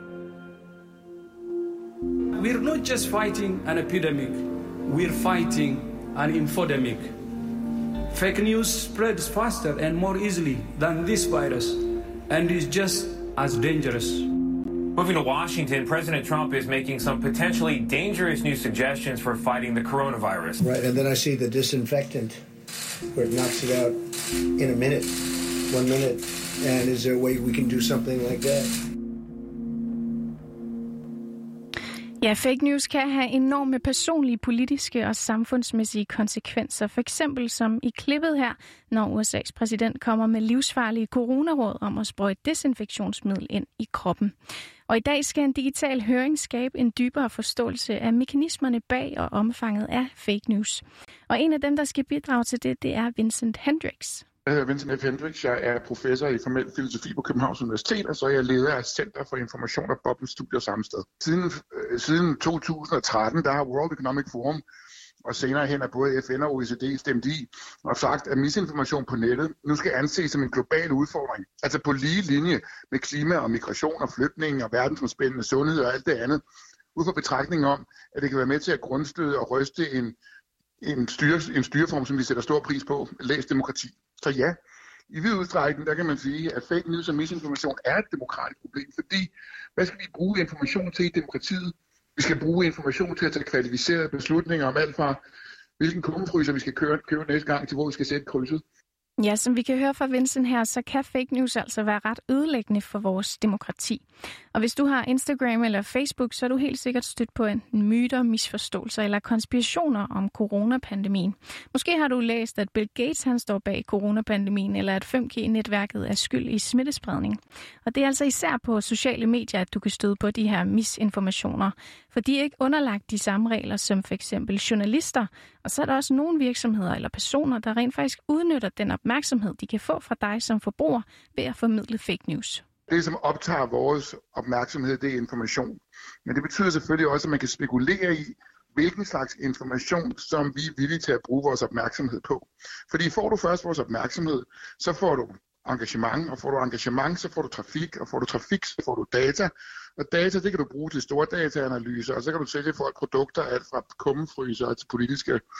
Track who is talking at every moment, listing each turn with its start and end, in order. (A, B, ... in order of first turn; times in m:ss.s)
0:02.4-0:07.1 A
0:08.1-0:14.3 A
0:15.0-0:20.6 B
0:20.6-0:22.4 C
0:23.1-0:24.0 C
0:24.6-0:28.7 C
0:32.2-0:44.3 D
0:44.9-0:54.2 D
0:54.4-1:04.6 E
1:05.2-1:16.4 E
1:16.9-1:20.2 E
1:20.8-1:24.5 E
1:25.1-1:35.2 E
1:35.8-1:38.6 E
1:39.2-2:12.6 D
2:12.9-2:35.4 E